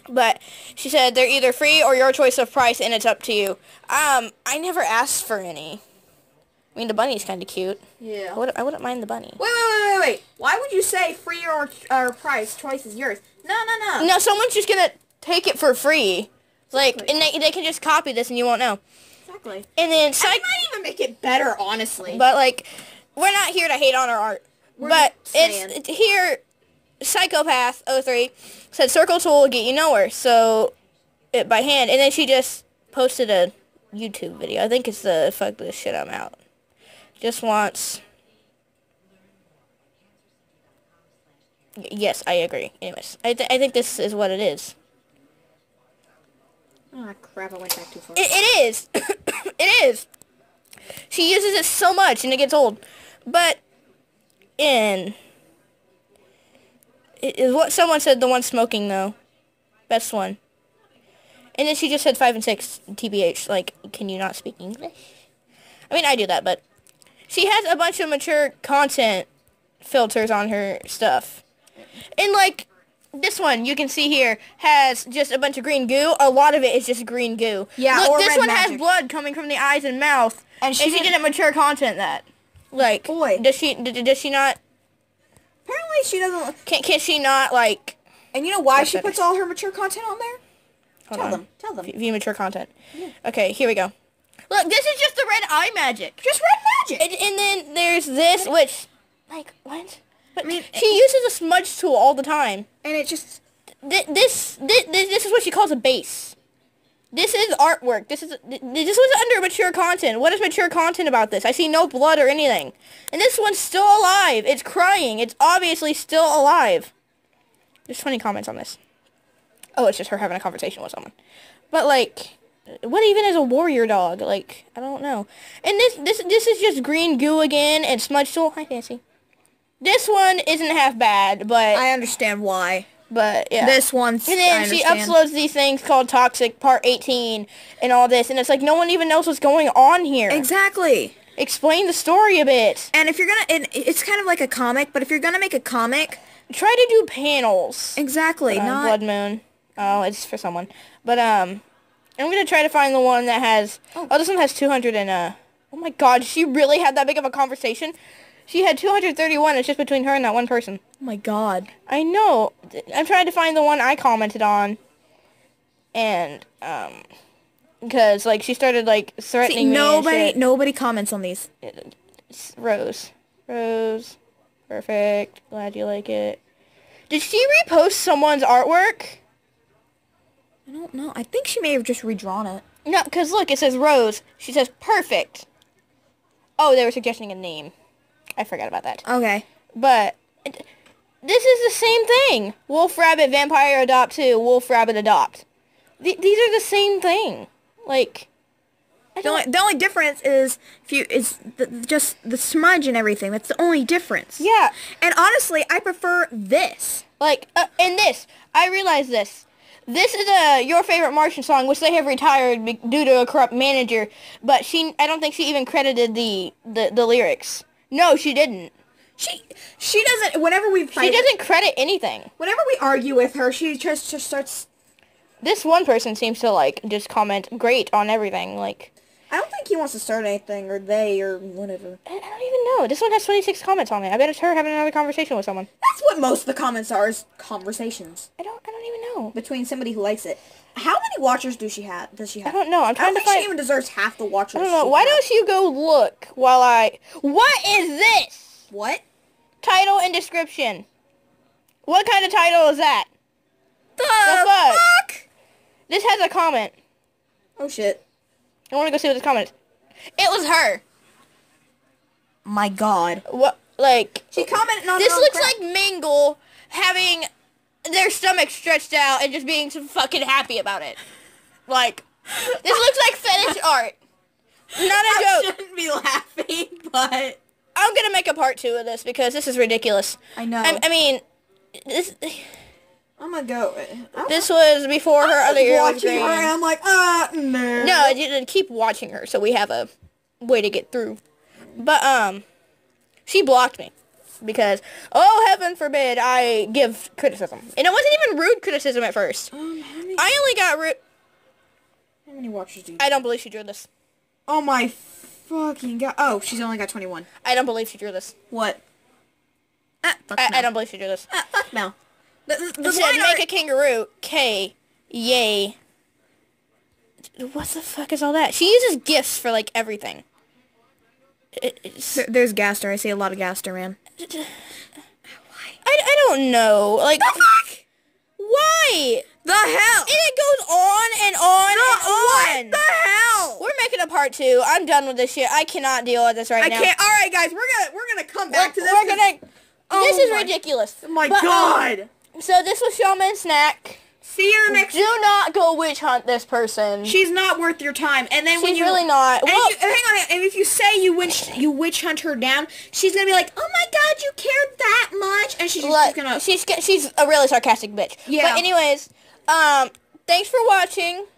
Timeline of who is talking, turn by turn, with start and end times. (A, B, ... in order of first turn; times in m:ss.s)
0:00.1-0:05.8 A
0:06.7-0:07.8 A
0:08.0-0:08.4 B
0:08.3-0:09.4 A
0:09.4-0:14.1 B
0:14.0-0:18.8 A
0:16.7-0:17.1 B
0:19.2-0:19.7 B
0:19.7-0:20.4 A
0:20.2-0:22.2 B
0:22.0-0:26.4 A
0:24.8-0:25.8 B
0:27.0-0:30.7 A
0:31.3-0:36.4 A
0:37.2-0:38.0 A
0:41.8-0:44.7 A
0:46.9-0:48.3 B
0:48.2-0:50.1 A
0:51.1-0:53.6 A
0:54.6-0:55.2 A
0:57.2-0:59.2 A
0:59.9-1:00.4 A
1:01.6-1:05.0 A
1:05.9-1:06.6 A
1:07.3-1:09.3 A
1:09.8-1:11.4 A
1:12.2-1:24.6 A
1:17.8-1:18.8 B
1:20.6-1:21.2 B
1:23.0-1:23.4 B
1:25.6-1:26.6 B
1:26.6-1:28.0 A
1:28.3-1:30.4 B
1:28.8-1:29.2 A
1:31.1-1:33.9 A
1:31.1-1:31.9 B
1:34.5-1:36.2 A
1:36.2-1:37.0 B
1:37.0-1:42.7 A
1:40.4-1:41.0 B
1:42.8-1:43.4 B
1:43.8-1:46.4 A
1:47.1-1:56.9 A
1:57.9-1:58.8 A
1:59.8-2:01.1 A
2:01.7-2:09.0 A
2:09.8-2:11.8 A
2:11.7-2:12.9 B
2:13.1-2:20.5 A
2:13.6-2:15.2 B
2:20.3-2:21.2 B
2:21.4-2:22.9 A
2:22.9-2:26.2 B
2:26.5-2:31.6 A
2:28.0-2:29.0 B
2:32.2-2:37.9 A
2:38.5-2:40.8 A
2:41.0-2:41.7 B
2:41.8-2:44.8 A
2:45.9-2:47.0 A
2:47.8-2:50.4 A
2:49.4-2:51.5 B
2:51.6-2:54.2 A
2:54.7-2:56.4 A
2:57.1-2:59.2 A
3:00.7-3:02.6 B
3:02.8-3:05.5 A
3:06.6-3:07.7 A
3:08.4-3:09.0 A
3:09.0-3:09.4 B
3:09.7-3:10.6 A
3:11.2-3:15.4 A
3:16.0-3:18.3 A
3:19.2-3:19.4 A
3:19.2-3:27.0 B
3:24.4-3:24.7 A
3:27.2-3:38.7 A
3:39.2-3:41.3 B
3:40.9-3:42.3 A
3:42.4-3:44.7 B
3:45.4-3:48.9 A
3:49.3-3:52.0 B
3:52.0-3:55.7 A
3:55.8-3:58.3 B
3:58.4-3:59.3 A
3:59.3-4:05.2 B
4:02.4-4:03.5 A
4:04.5-4:08.6 A
4:08.7-4:09.0 B
4:09.6-4:10.8 A
4:11.8-4:13.1 A
4:14.0-4:15.2 B
4:14.2-4:14.8 A
4:15.9-4:16.7 A
4:17.6-4:18.0 B
4:18.7-4:19.5 A
4:20.2-4:20.8 A
4:22.4-4:23.2 B
4:23.2-4:27.3 A
4:24.3-4:25.5 B
4:27.8-4:31.0 A
4:31.7-4:34.0 A
4:32.6-4:32.9 B
4:34.7-4:37.4 B
4:34.7-4:35.5 A
4:37.7-4:41.2 A
4:40.4-4:40.8 B
4:41.8-4:42.6 A
4:43.2-4:44.5 B
4:44.3-4:46.5 A
4:45.2-4:48.2 B
4:47.8-4:49.9 A
4:50.4-4:51.2 A
4:51.8-4:52.4 A
4:53.2-4:59.5 A
4:59.5-5:00.3 B
5:00.2-5:01.0 A
5:02.2-5:03.2 B
5:03.0-5:03.9 A
5:04.5-5:07.3 B
5:07.4-5:08.3 A
5:08.5-5:08.8 B
5:10.0-5:10.7 B
5:10.4-5:11.3 A
5:11.3-5:11.9 B
5:12.5-5:13.4 B
5:12.8-5:15.8 A
5:17.4-5:20.2 A
5:21.6-5:22.2 A
5:22.1-5:24.0 B
5:24.2-5:24.5 A
5:25.4-5:25.7 B
5:25.8-5:27.5 A
5:27.2-5:27.8 B
5:28.4-5:29.3 A
5:29.4-5:30.2 B
5:30.1-5:32.8 A
5:31.6-5:33.6 B
5:33.6-5:36.9 A
5:36.6-5:39.3 B
5:38.5-5:44.0 A
5:39.9-5:42.1 B
5:44.2-5:45.1 B
5:44.7-5:47.2 A
5:47.0-5:56.4 B
5:48.6-5:49.7 A
5:55.8-6:01.3 A
5:58.3-5:58.6 B